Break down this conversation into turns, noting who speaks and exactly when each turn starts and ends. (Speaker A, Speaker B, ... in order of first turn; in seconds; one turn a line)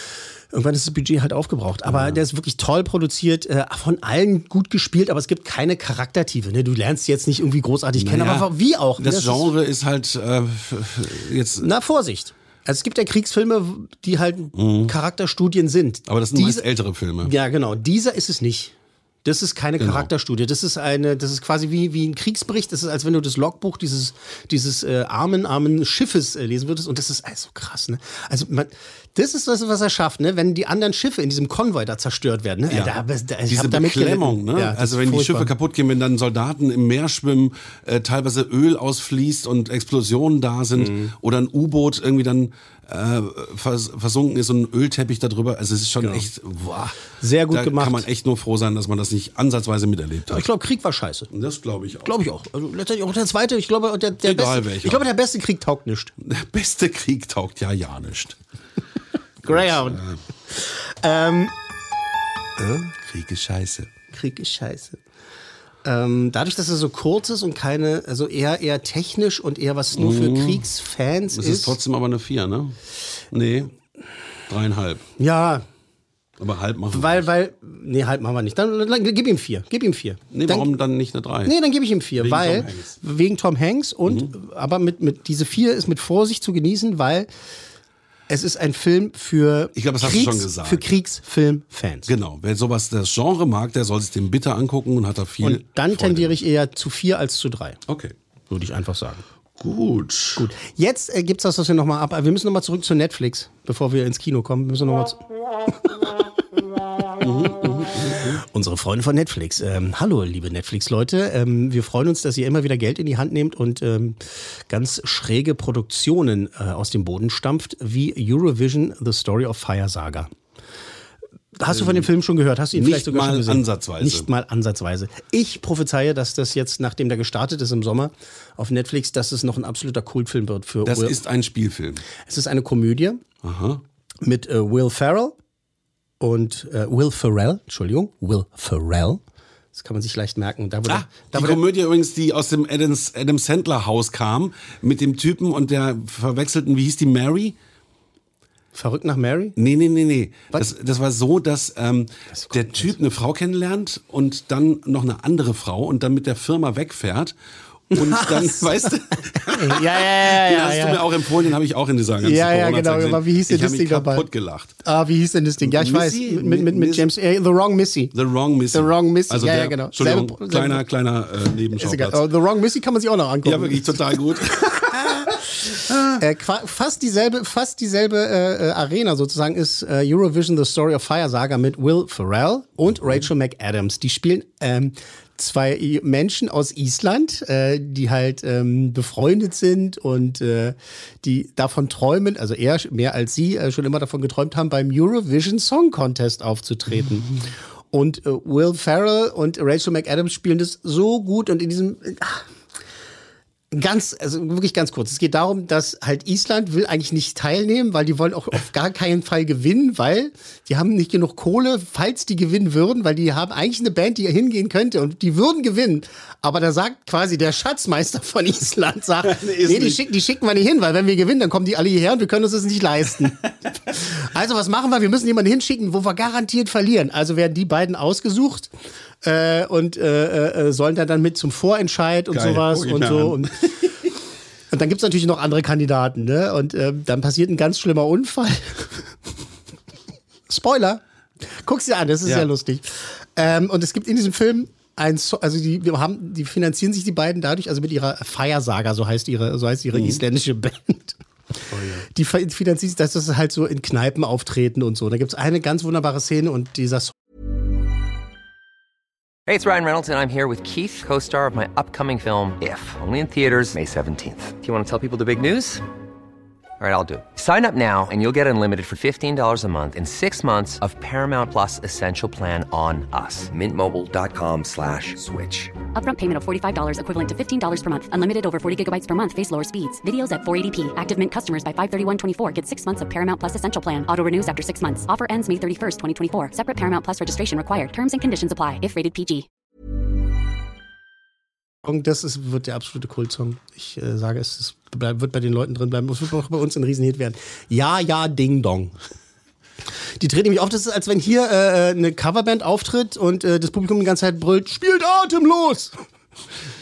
Speaker A: 0.5-9.5
Speaker B: 1.9-2.2
Speaker B: 8.0-11.7
Speaker A: 11.6-16.6
Speaker B: 14.5-14.9
Speaker B: 16.1-17.3
Speaker A: 17.2-18.7
Speaker A: 19.2-35.5
Speaker B: 19.8-20.1
Speaker B: 32.7-46.8
Speaker A: 40.8-41.1
Speaker A: 46.0-48.0
Speaker B: 47.5-50.5
Speaker A: 50.3-51.3
Speaker B: 51.3-52.3
Speaker A: 52.0-56.1
Speaker B: 54.2-55.1
Speaker B: 56.2-58.4
Speaker B: 59.4-60.2
Speaker A: 59.4-61.5
Speaker A: 62.6-62.9
Speaker B: 63.0-63.9
Speaker A: 64.1-65.0
Speaker A: 65.8-71.8
Speaker B: 69.9-70.7
Speaker B: 71.3-72.8
Speaker B: 73.3-73.7
Speaker B: 74.5-75.0
Speaker A: 75.2-75.6
Speaker B: 76.4-77.3
Speaker A: 76.9-80.7
Speaker B: 80.3-81.5
Speaker A: 81.4-87.3
Speaker B: 82.2-83.0
Speaker B: 84.0-84.3
Speaker A: 88.3-92.1
Speaker B: 89.7-90.9
Speaker B: 92.1-96.4
Speaker A: 95.4-97.8
Speaker B: 97.9-98.1
Speaker A: 98.5-99.2
Speaker B: 99.6-100.5
Speaker A: 100.3-105.2
Speaker B: 107.2-108.4
Speaker A: 108.4-120.3
Speaker A: 121.5-131.2
Speaker B: 121.7-122.1
Speaker B: 122.7-124.3
Speaker B: 130.8-132.0
Speaker A: 132.2-133.2
Speaker B: 133.4-133.8
Speaker A: 134.2-135.3
Speaker A: 136.2-139.2
Speaker A: 139.7-141.6
Speaker B: 140.8-147.6
Speaker A: 148.7-149.6
Speaker B: 149.6-157.3
Speaker A: 152.3-153.0
Speaker B: 157.9-164.7
Speaker A: 157.9-161.2
Speaker A: 162.2-164.3
Speaker A: 164.8-168.1
Speaker B: 165.6-167.1
Speaker B: 168.1-172.3
Speaker A: 168.7-170.8
Speaker A: 171.7-202.4
Speaker B: 173.4-176.2
Speaker A: 203.7-228.7
Speaker B: 219.2-220.0
Speaker A: 229.2-233.5
Speaker B: 232.3-234.0
Speaker A: 234.7-239.1
Speaker A: 240.5-251.2
Speaker B: 249.9-250.2
Speaker B: 251.7-252.1
Speaker A: 252.1-257.1
Speaker C: 259.5-265.8
Speaker C: 266.8-275.7
Speaker D: 275.9-289.4
Speaker A: 291.8-298.9
Speaker A: 300.2-305.9